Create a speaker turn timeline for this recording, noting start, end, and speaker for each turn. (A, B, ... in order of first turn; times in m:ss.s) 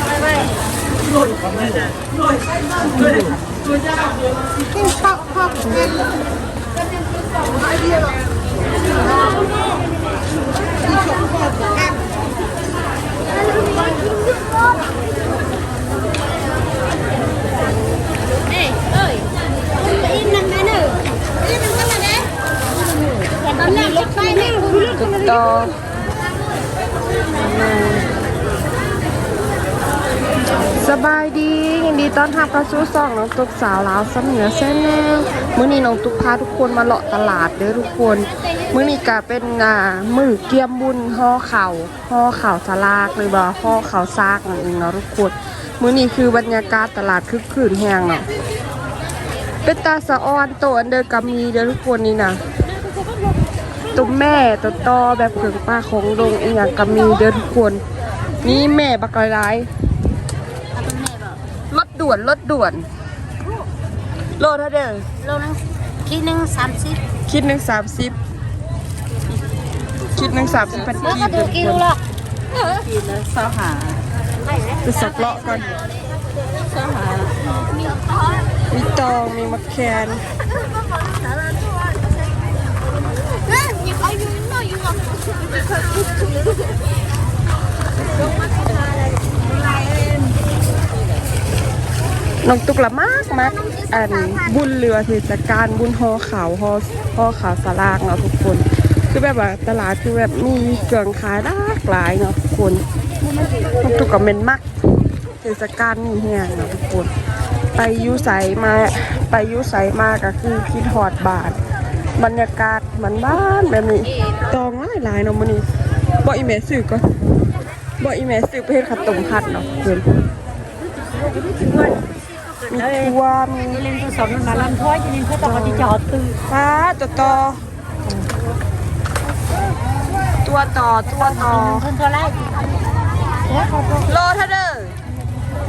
0:19.9-0:21.0 A
0:21.9-0:22.2 A
0:23.5-0:25.0 A
0:24.9-0:25.7 B
0:27.3-0:28.1 B
0:30.7-0:48.3 B
0:49.6-0:52.4 B
0:53.9-0:57.8 B
0:58.4-0:59.7 B
1:00.8-1:01.4 A
1:01.7-1:02.9 B
1:04.4-1:05.1 B
1:05.2-1:07.0 A
1:07.3-1:08.2 B
1:10.1-1:11.9 B
1:11.0-1:12.0 A
1:12.6-1:14.0 C
1:14.8-1:15.7 B
1:16.8-1:17.3 C
1:18.7-1:20.2 B
1:23.6-1:25.0 A
1:32.4-1:42.8 B
1:33.6-1:34.4 A
1:43.8-1:47.1 B
1:47.7-1:51.6 B
1:52.2-1:55.6 B
1:56.2-1:57.2 B
1:58.0-2:00.0 B
2:02.7-2:03.8 B
2:04.0-2:06.3 C
2:05.4-2:05.9 B
2:06.5-2:08.1 B
2:10.4-2:11.9 B
2:11.7-2:12.3 A
2:14.0-2:14.9 B